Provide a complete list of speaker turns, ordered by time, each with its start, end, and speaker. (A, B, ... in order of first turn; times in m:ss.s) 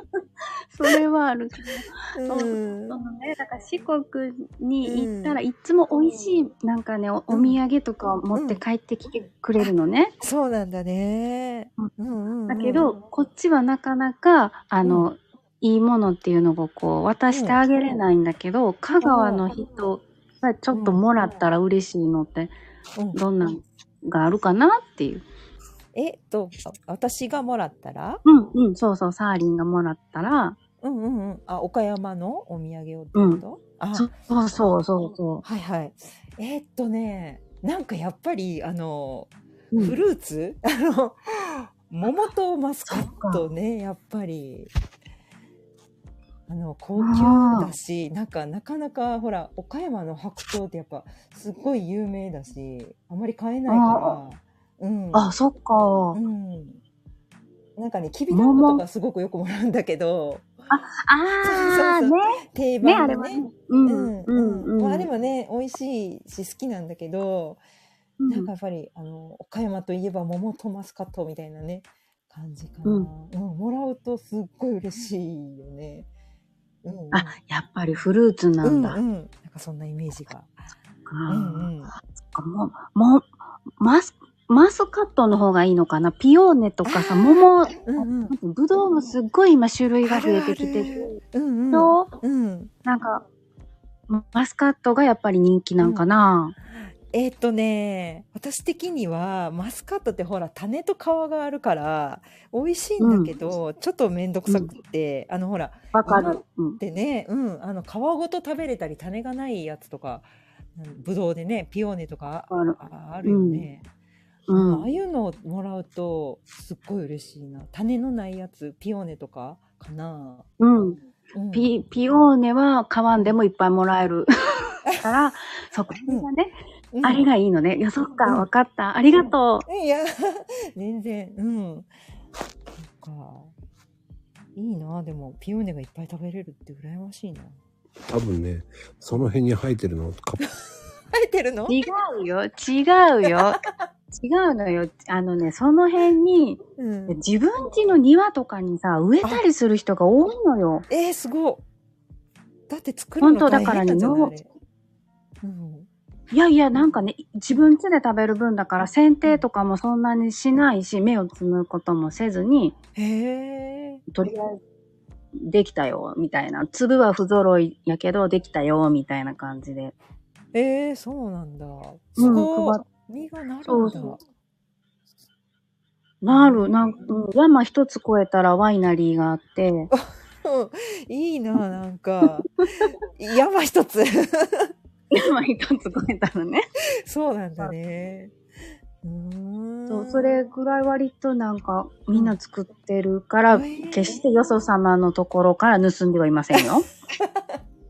0:00.7-0:10.1 A
0:02.1-0:03.0 B
0:04.8-0:05.4 B
0:07.3-0:07.6 B
0:08.3-0:08.6 B
0:09.6-0:12.9 B
0:12.5-0:22.5 A
0:14.8-0:15.1 B
0:17.3-0:17.6 B
0:19.0-0:19.5 B
0:20.7-0:21.0 B
0:23.1-0:25.2 A
0:25.9-0:28.2 B
0:28.2-0:30.6 A
0:30.8-0:34.1 B
0:33.1-0:33.4 A
0:33.9-0:35.4 A
0:35.4-0:44.7 B
0:42.9-0:43.4 A
0:46.5-0:55.3 B
0:47.0-0:47.7 A
0:53.7-0:54.2 A
0:55.1-0:56.2 A
0:56.1-0:56.8 B
0:57.8-1:00.6 B
0:58.3-0:58.8 A
1:00.7-1:05.1 A
1:01.4-1:07.6 B
1:08.2-1:08.5 A
1:08.3-1:16.1 B
1:16.8-1:17.4 B
1:17.1-1:19.0 A
1:18.6-1:20.5 B
1:21.1-1:21.7 A
1:21.3-1:21.9 B
1:22.2-1:31.2 A
1:26.8-1:28.3 B
1:30.0-1:32.7 B
1:31.7-1:32.1 A
1:32.8-1:33.2 A
1:34.1-1:36.5 A
1:35.8-1:36.1 B
1:36.7-1:53.8 B
1:43.0-1:43.4 A
1:44.5-1:44.7 A
1:45.9-1:46.8 A
1:52.5-1:53.6 A
1:54.5-1:54.9 A
1:54.5-2:00.5 B
2:00.6-2:01.0 A
2:01.3-2:01.7 B
2:01.5-2:04.3 A
2:05.0-2:09.6 A
2:06.9-2:07.3 B
2:09.7-2:11.9 B
2:12.8-2:13.5 B
2:14.6-2:17.6 B
2:18.0-2:20.4 C
2:21.1-2:21.8 B
2:21.7-2:30.8 A
2:23.3-2:23.6 B
2:26.8-2:27.2 B
2:30.9-2:31.6 B
2:32.7-2:34.5 B
2:33.2-2:34.3 A
2:35.4-2:35.9 B
2:36.3-2:42.8 A
2:43.0-2:44.0 B
2:44.1-2:44.6 A
2:45.4-2:49.9 A
2:50.5-2:54.2 B
2:52.2-2:52.8 A
2:53.6-2:54.2 A
2:56.2-2:59.9 A
2:56.3-2:57.0 B
2:59.9-3:04.7 B
3:05.1-3:06.6 A
3:07.0-3:08.3 B
3:09.0-3:10.4 B
3:09.9-3:16.9 A
3:13.5-3:14.2 B
3:17.2-3:17.6 B